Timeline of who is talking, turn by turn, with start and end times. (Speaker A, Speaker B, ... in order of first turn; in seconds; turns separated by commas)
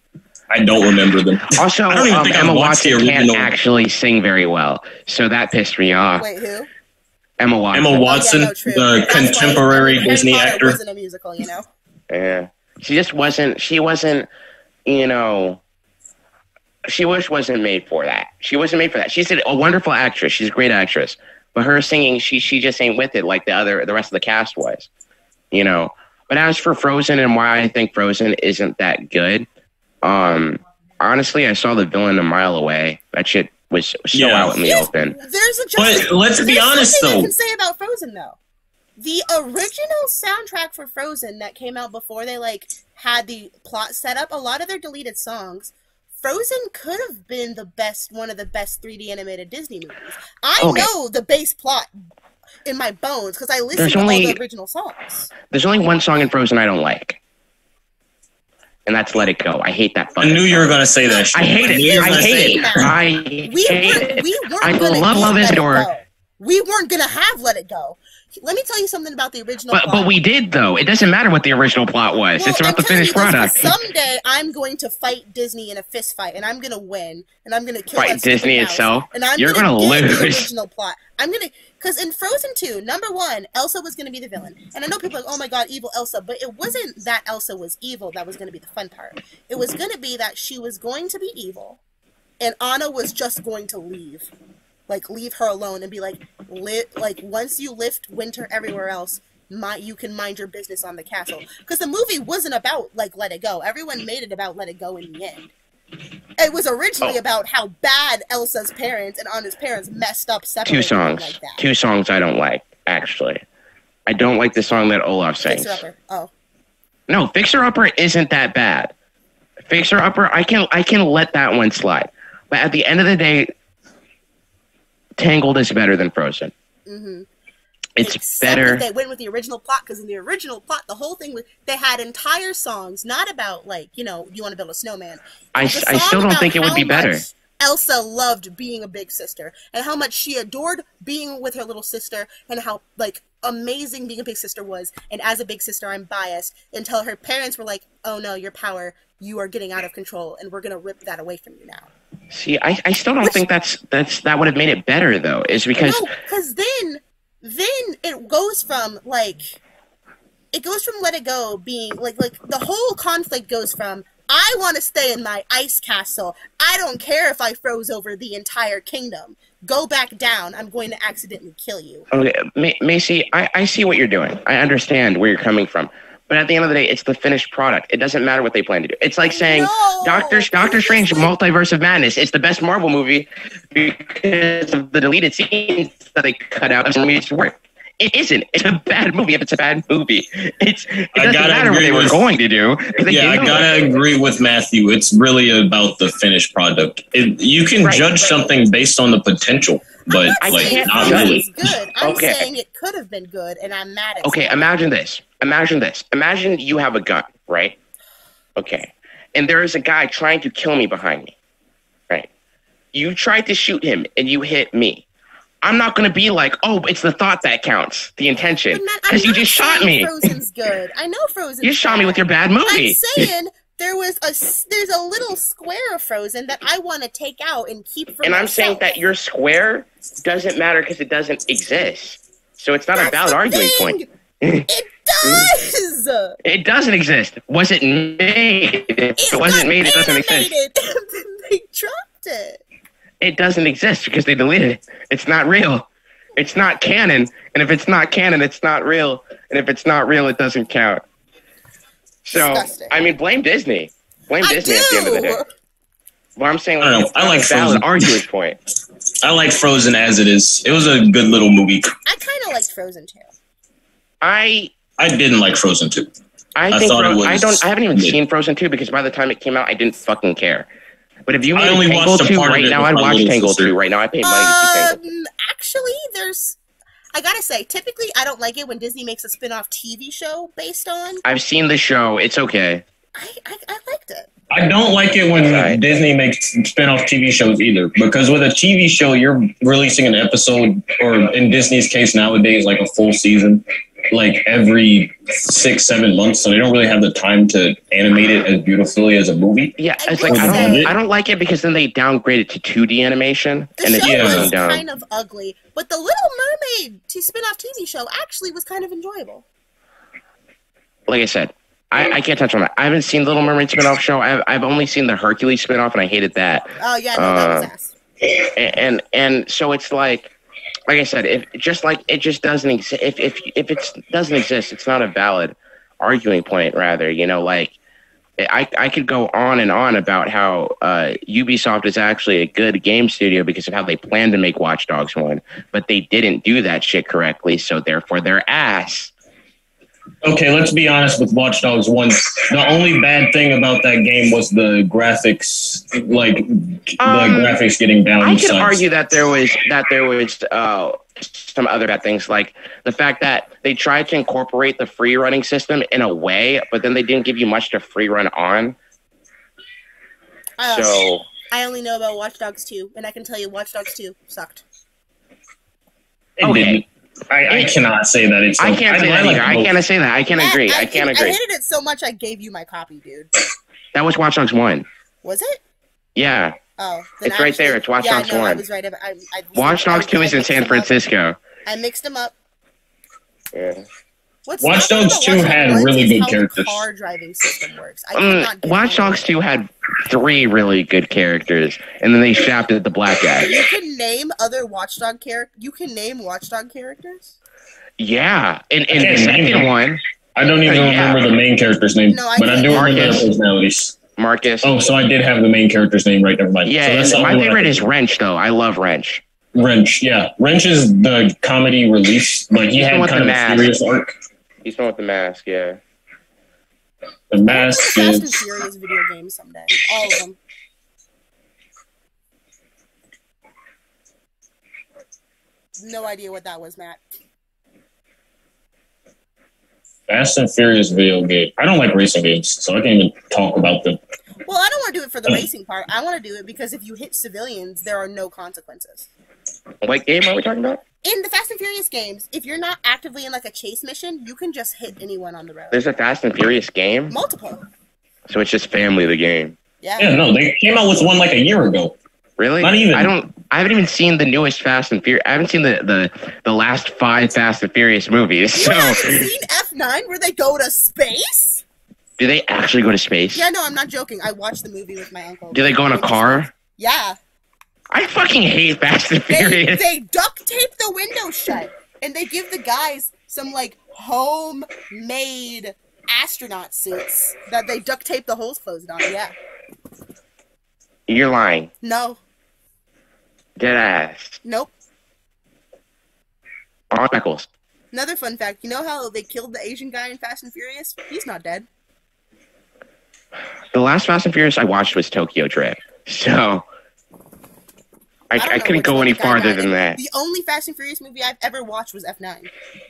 Speaker A: 0.5-3.5, Speaker B: 1.5-6.3, Speaker C: 6.2-6.7, Speaker B: 7.4-8.1, Speaker A: 7.7-10.8, Speaker C: 8.0-11.7, Speaker B: 12.1-14.3, Speaker B: 14.9-15.6, Speaker B: 16.9-24.9, Speaker B: 25.5-29.5, Speaker B: 30.0-35.1, Speaker A: 34.1-34.5, Speaker C: 34.6-38.4, Speaker A: 35.8-37.3, Speaker C: 39.0-51.9, Speaker B: 50.6-50.9, Speaker C: 52.6-55.3, Speaker B: 53.8-54.4, Speaker B: 55.5-57.2, Speaker B: 58.9-60.7, Speaker A: 60.2-62.9, Speaker C: 61.1-70.1, Speaker B: 61.3-65.9, Speaker B: 69.7-73.8, Speaker C: 72.4-91.8, Speaker B: 78.0-80.5, Speaker C: 92.4-94.3, Speaker C: 94.9-105.5, Speaker C: 106.4-111.6, Speaker B: 110.7-113.4, Speaker B: 114.1-115.8, Speaker C: 115.4-116.3, Speaker B: 117.1-118.9, Speaker B: 119.7-123.5, Speaker B: 125.2-126.5, Speaker C: 126.9-127.3, Speaker B: 128.0-128.8, Speaker C: 128.0-151.9, Speaker B: 135.6-137.2, Speaker B: 152.3-156.1, Speaker C: 155.8-159.6, Speaker C: 160.5-172.1, Speaker B: 172.1-193.9, Speaker C: 179.3-181.3, Speaker A: 191.2-192.2, Speaker A: 193.1-201.7, Speaker B: 197.8-198.1, Speaker C: 200.1-204.6, Speaker B: 200.4-201.4, Speaker B: 202.0-202.5, Speaker B: 204.2-207.8, Speaker B: 208.6-211.3, Speaker B: 212.9-215.0, Speaker B: 215.6-220.3, Speaker C: 218.7-229.0, Speaker B: 221.6-223.3, Speaker B: 228.2-234.7, Speaker C: 232.9-234.1, Speaker C: 234.7-236.4, Speaker B: 235.2-235.5, Speaker B: 236.4-240.5, Speaker C: 239.2-242.6, Speaker B: 243.2-251.0, Speaker B: 252.2-255.4, Speaker C: 252.3-253.0, Speaker C: 254.4-255.5, Speaker B: 256.4-258.6, Speaker A: 256.8-258.2, Speaker A: 259.2-261.9, Speaker C: 262.1-263.3, Speaker B: 264.2-264.7, Speaker A: 265.0-266.1, Speaker B: 266.6-270.7, Speaker A: 266.7-268.2, Speaker B: 271.3-275.0, Speaker A: 271.6-273.7, Speaker C: 274.2-276.6, Speaker C: 277.1-281.2, Speaker B: 281.2-282.8, Speaker C: 283.1-284.3, Speaker A: 284.5-300.9, Speaker B: 285.4-285.8, Speaker B: 299.8-304.8, Speaker C: 300.0-300.9, Speaker C: 303.8-309.4, Speaker A: 304.0-304.5, Speaker B: 311.1-317.7, Speaker C: 316.8-317.9, Speaker B: 318.4-320.3, Speaker B: 320.9-327.8, Speaker B: 328.4-339.1, Speaker A: 340.2-348.8, Speaker B: 347.0-347.6, Speaker B: 348.2-358.8, Speaker C: 360.6-364.6, Speaker B: 360.6-361.2, Speaker A: 366.4-369.7, Speaker B: 366.4-366.8, Speaker B: 368.6-371.4, Speaker C: 370.4-373.3, Speaker B: 373.9-374.9, Speaker C: 375.2-375.6, Speaker B: 376.2-376.6, Speaker C: 376.8-380.9, Speaker B: 377.2-378.6, Speaker B: 379.6-381.4, Speaker C: 381.7-382.3, Speaker B: 383.5-383.9, Speaker C: 384.5-389.2, Speaker A: 384.6-386.9, Speaker B: 388.1-393.6, Speaker C: 393.4-397.4, Speaker B: 398.0-400.0, Speaker A: 398.9-399.8, Speaker A: 400.4-404.0, Speaker B: 400.6-401.2, Speaker C: 402.1-403.2, Speaker B: 402.7-403.3, Speaker B: 404.2-404.7, Speaker A: 404.6-407.8, Speaker B: 406.6-409.2, Speaker A: 409.6-414.1, Speaker B: 412.7-413.7, Speaker B: 414.6-415.8, Speaker A: 417.3-418.6, Speaker C: 417.5-420.4, Speaker C: 425.8-427.0, Speaker A: 430.1-434.0, Speaker C: 434.4-439.1, Speaker B: 439.8-440.8, Speaker C: 441.0-445.8, Speaker B: 445.7-447.1, Speaker C: 447.1-447.6, Speaker B: 448.3-449.6, Speaker C: 449.8-450.1, Speaker A: 450.0-452.0, Speaker B: 452.4-459.3, Speaker A: 452.6-453.1, Speaker C: 458.6-461.6, Speaker B: 462.2-463.5, Speaker C: 463.4-467.2, Speaker B: 465.5-466.5, Speaker B: 467.9-469.8, Speaker C: 469.3-479.3, Speaker B: 481.1-481.7, Speaker C: 481.8-482.2, Speaker B: 483.6-484.4, Speaker C: 484.4-484.7, Speaker B: 486.9-487.5, Speaker C: 487.9-491.7, Speaker B: 493.7-496.7, Speaker B: 498.3-500.0, Speaker C: 498.4-502.5